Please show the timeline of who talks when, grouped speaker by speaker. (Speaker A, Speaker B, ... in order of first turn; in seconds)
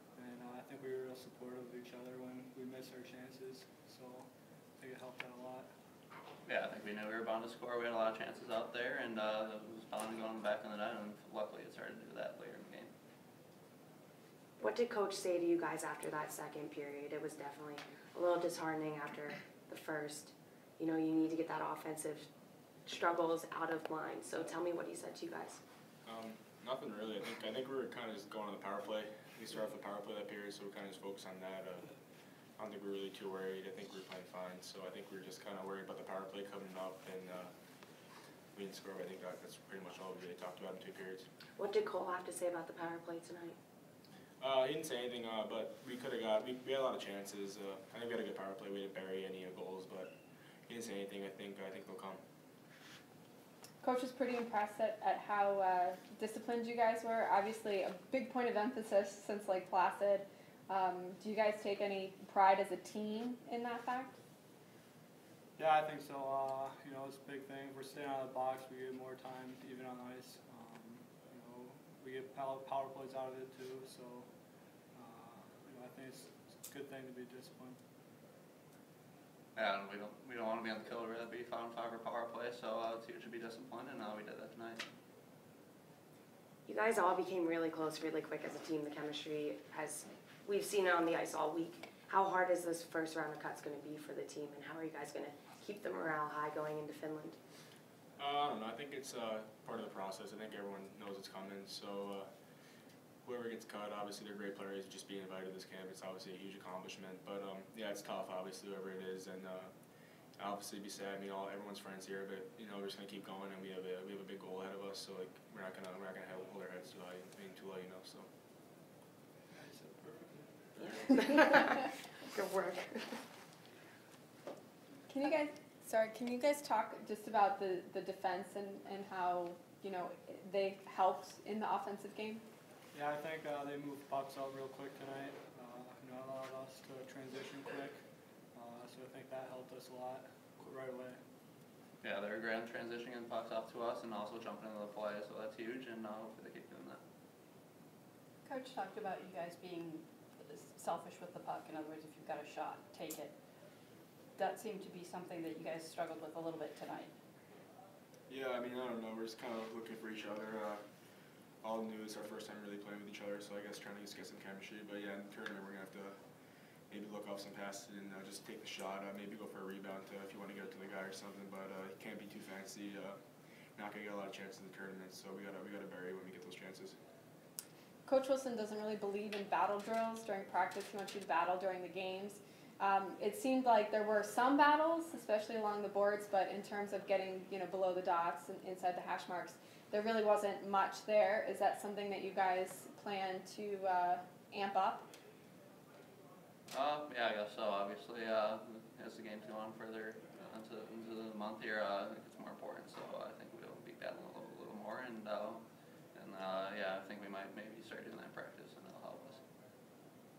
Speaker A: 0.2-4.3, 4.8-5.7, 65.6-74.3, 74.9-77.8, 119.5-121.1, 132.9-138.0, 138.5-141.2
Speaker B: 6.5-12.9, 79.5-84.8, 142.0-147.0, 196.7-205.6, 206.1-209.4
Speaker C: 14.6-22.3, 22.9-25.6, 41.6-43.5, 86.7-97.4, 120.8-121.8, 122.3-123.2
Speaker D: 26.1-31.9, 32.6-37.5, 38.5-41.3, 44.4-50.1, 50.7-52.2, 98.2-102.3, 103.2-109.7, 110.4-118.3, 158.3-160.8, 161.6-166.2, 166.9-173.2, 173.7-176.9
Speaker E: 53.8-64.2, 125.1-132.4, 178.1-195.1
Speaker F: 148.5-149.8, 150.8-153.3, 154.4-157.1